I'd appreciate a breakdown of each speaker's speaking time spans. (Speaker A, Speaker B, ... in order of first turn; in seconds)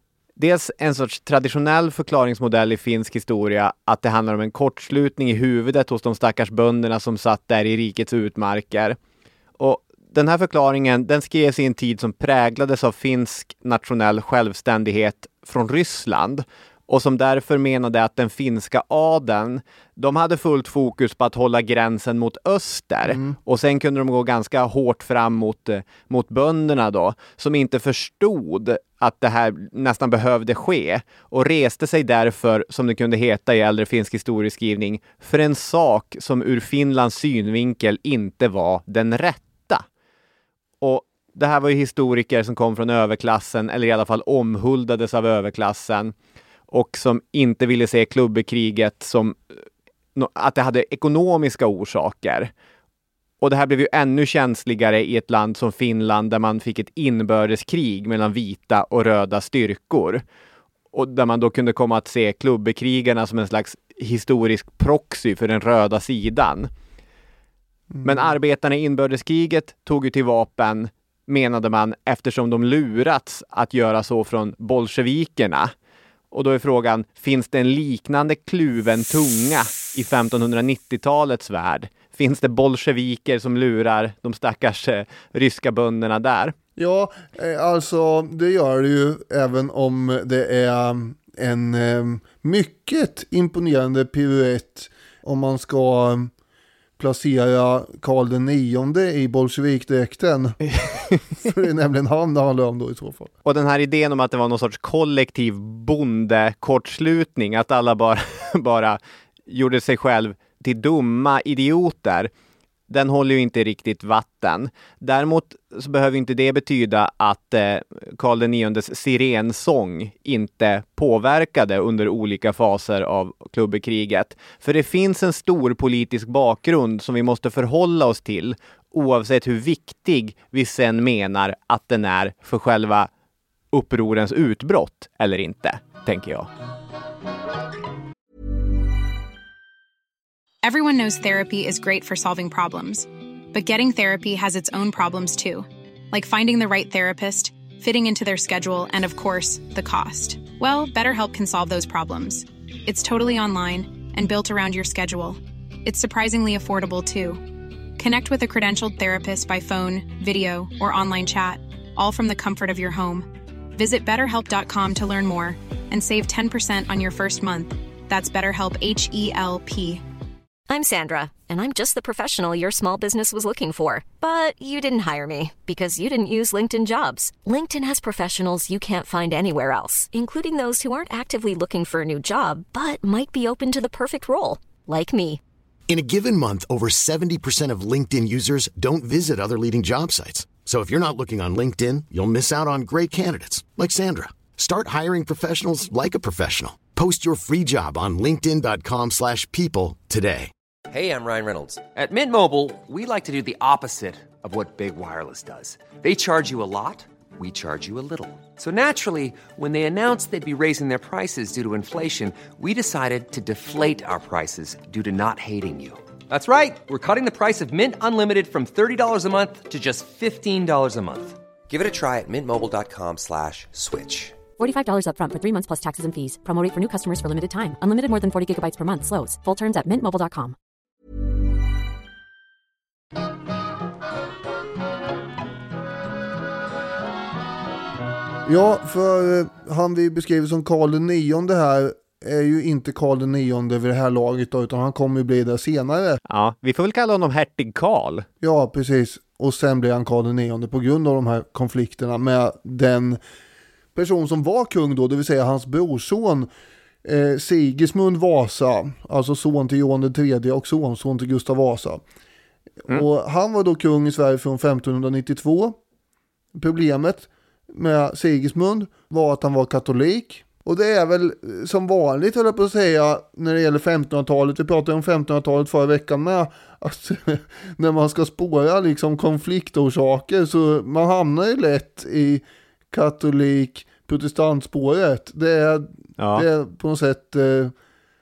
Speaker A: 0.4-9.0, 9.6-39.8, 40.8-46.1, 46.7-49.4, 50.1-52.5, 53.4-60.2, 60.9-66.7, 68.0-75.7, 76.3-86.5, 100.7-101.2, 103.4-112.3, 112.9-133.1, 133.7-136.5, 246.3-248.3, 286.2-286.5
Speaker B: 23.1-23.4, 67.9-68.3, 86.8-96.3, 97.0-100.6, 101.3-103.3, 238.4-246.2, 248.4-253.2, 253.9-256.5, 257.1-262.0, 262.9-265.8, 266.6-287.7
Speaker C: 140.6-157.4, 158.0-170.0
Speaker D: 170.7-185.4
Speaker E: 185.9-200.5
Speaker F: 200.9-224.4
Speaker G: 224.6-230.6